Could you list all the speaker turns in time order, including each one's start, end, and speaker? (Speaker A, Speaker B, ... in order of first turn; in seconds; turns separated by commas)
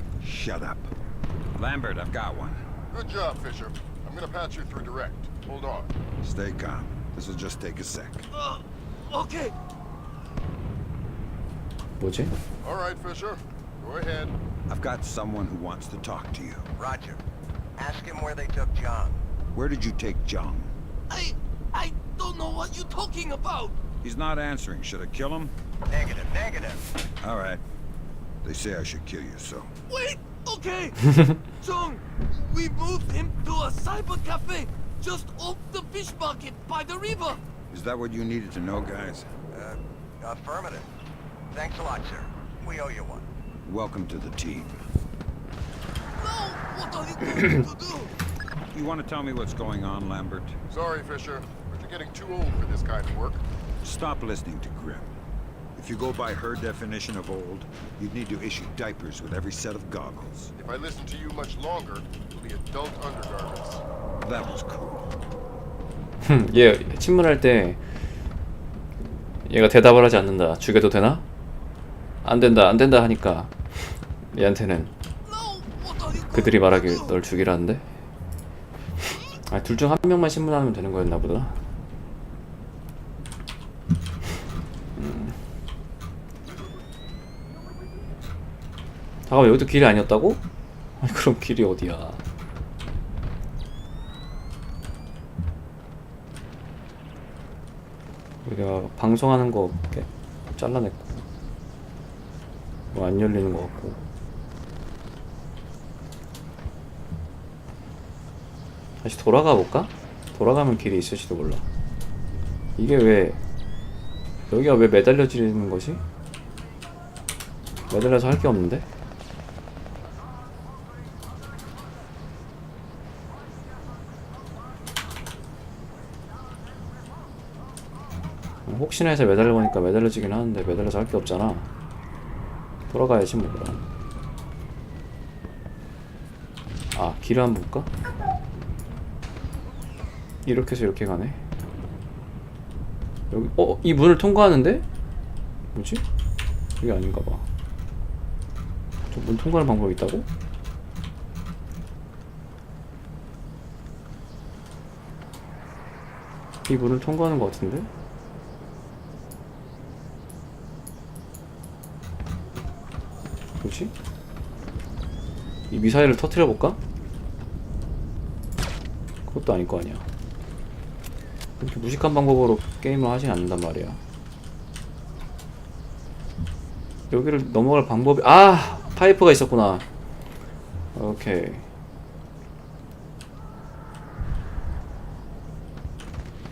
Speaker A: 0.2-0.9, Speaker A: 1.6-2.6, Speaker B: 2.9-5.9, Speaker A: 6.2-8.3, Speaker C: 8.3-9.5, Speaker D: 12.0-12.3, Speaker B: 12.6-14.3, Speaker A: 14.7-16.7, Speaker E: 16.8-17.2, Speaker E: 17.8-19.2, Speaker A: 19.5-20.7, Speaker C: 21.1-23.8, Speaker A: 24.0-25.5, Speaker E: 25.9-26.8, Speaker A: 27.2-27.6, Speaker A: 28.4-29.7, Speaker C: 29.9-37.4, Speaker A: 37.7-39.3, Speaker E: 39.5-40.9, Speaker E: 41.5-43.3, Speaker A: 43.6-44.8, Speaker C: 46.2-48.1, Speaker A: 48.7-50.6, Speaker B: 50.7-53.4, Speaker A: 53.8-55.1, Speaker A: 55.8-60.5, Speaker B: 60.6-63.8, Speaker A: 64.2-65.1, Speaker D: 66.2-67.8, Speaker D: 69.4-71.2, Speaker D: 72.2-74.9, Speaker C: 75.2-77.1, Speaker D: 76.3-77.8, Speaker D: 79.5-81.6, Speaker D: 85.0-85.3, Speaker D: 89.3-90.4, Speaker D: 91.0-92.2, Speaker D: 98.4-101.2, Speaker D: 102.9-104.0, Speaker D: 109.0-111.6, Speaker D: 112.8-113.4, Speaker D: 114.5-116.0, Speaker D: 117.9-118.8, Speaker D: 128.7-131.7, Speaker D: 132.9-133.8, Speaker D: 136.9-137.9, Speaker D: 140.4-141.4, Speaker D: 143.3-144.8, Speaker D: 145.7-146.0, Speaker D: 146.8-147.4, Speaker D: 149.1-150.3, Speaker D: 156.7-157.9, Speaker D: 163.6-163.9, Speaker D: 165.7-166.8, Speaker D: 169.3-170.1, Speaker D: 171.6-174.0, Speaker D: 177.1-179.8, Speaker D: 180.9-181.7